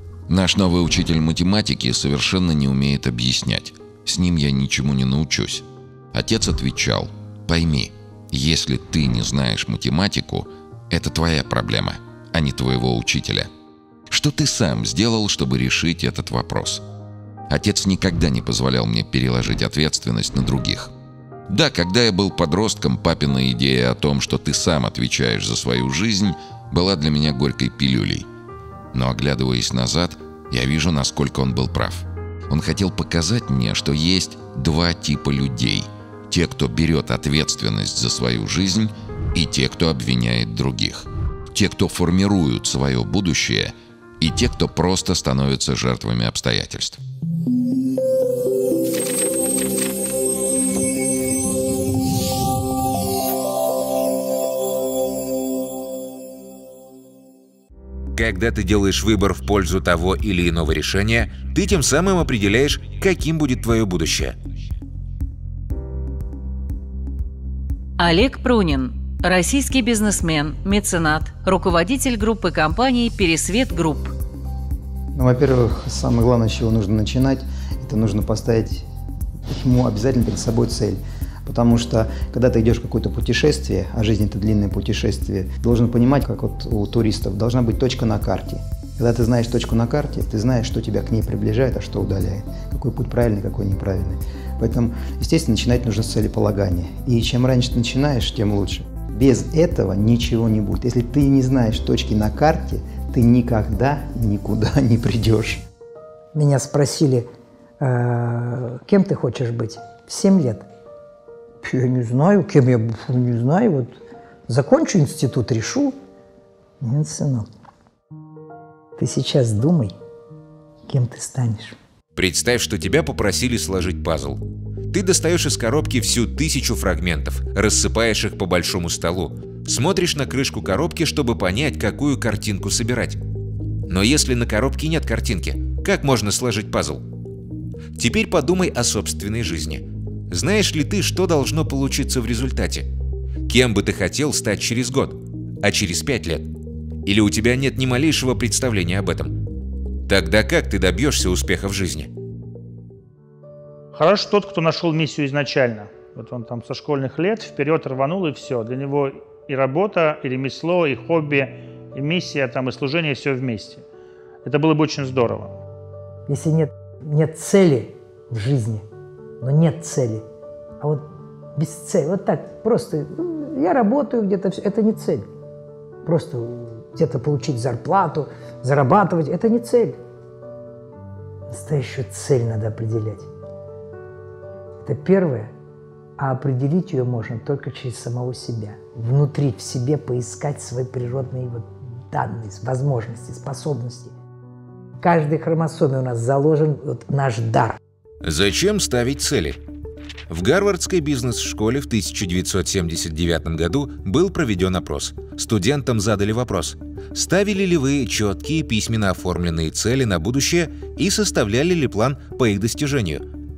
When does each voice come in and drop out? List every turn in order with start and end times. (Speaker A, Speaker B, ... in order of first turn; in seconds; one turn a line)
Speaker A: 0.3-13.5
Speaker A: 14.1-16.8
Speaker A: 17.5-20.9
Speaker A: 21.5-28.3
Speaker A: 28.9-47.0
Speaker B: 58.1-64.4
Speaker C: 68.0-74.1
Speaker D: 75.1-78.9
Speaker D: 79.5-105.6
Speaker E: 106.3-107.3
Speaker E: 107.8-110.7
Speaker E: 111.6-116.0
Speaker E: 116.8-117.5
Speaker E: 119.0-119.9
Speaker E: 120.9-121.8
Speaker B: 122.1-133.2
Speaker B: 133.9-137.1
Speaker B: 137.9-142.9
Speaker B: 143.5-146.5
Speaker B: 147.0-149.4
Speaker B: 150.1-152.1
Speaker F: 153.9-163.8
Speaker F: 164.4-165.5
Speaker E: 166.3-168.8
Speaker E: 169.4-170.2
Speaker E: 170.8-175.3
Speaker E: 176.0-180.0
Speaker E: 181.5-183.3
Speaker E: 184.8-185.5
Speaker E: 186.2-194.1
Speaker E: 195.0-197.8
Speaker B: 198.2-199.6
Speaker B: 200.3-213.2